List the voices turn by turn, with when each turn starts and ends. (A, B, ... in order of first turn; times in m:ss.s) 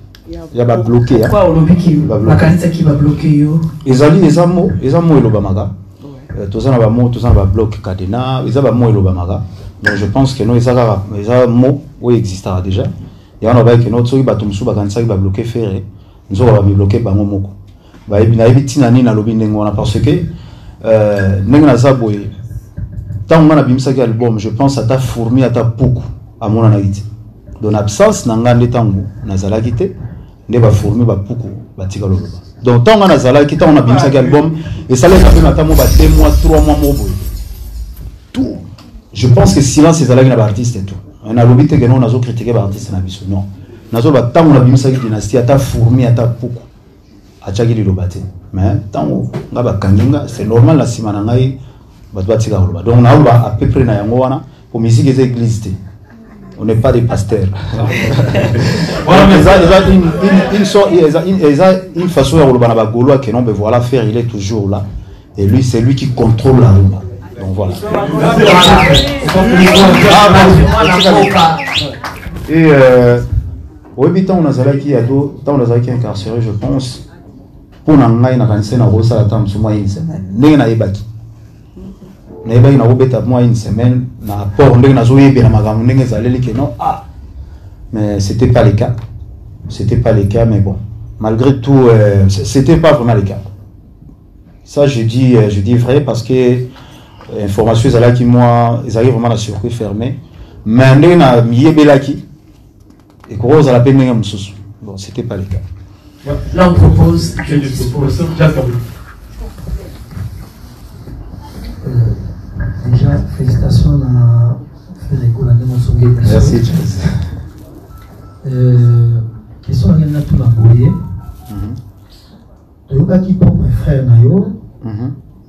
0:00.3-0:03.7 A
0:00.5-0:01.4 B
0:02.0-0:02.6 B
0:03.8-0:05.7 B
0:06.3-0:17.5 B
0:18.1-0:20.3 B
0:20.8-0:22.3 B
0:23.3-0:27.0 B
0:27.6-0:29.9 B
0:30.5-0:37.2 B
0:38.3-0:46.7 B
0:47.4-0:51.6 B
0:52.1-0:55.8 B
0:56.6-1:04.8 B
0:59.0-0:59.9 C
1:05.4-1:08.1 B
1:08.1-1:10.8 C
1:08.2-1:11.6 A
1:10.1-1:11.4 B
1:12.5-1:13.2 B
1:14.0-1:17.0 B
1:17.8-1:21.0 B
1:22.4-1:27.0 B
1:27.9-1:29.0 B
1:29.7-1:33.4 B
1:34.7-1:36.7 B
1:37.3-1:42.2 B
1:43.3-1:45.6 B
1:46.2-1:48.8 C
1:46.5-1:48.4 A
1:51.8-1:52.2 D
1:52.8-1:56.8 D
1:56.2-1:57.1 B
1:58.4-2:01.0 D
2:01.5-2:01.8 B
2:02.9-2:04.6 D
2:04.8-2:05.2 B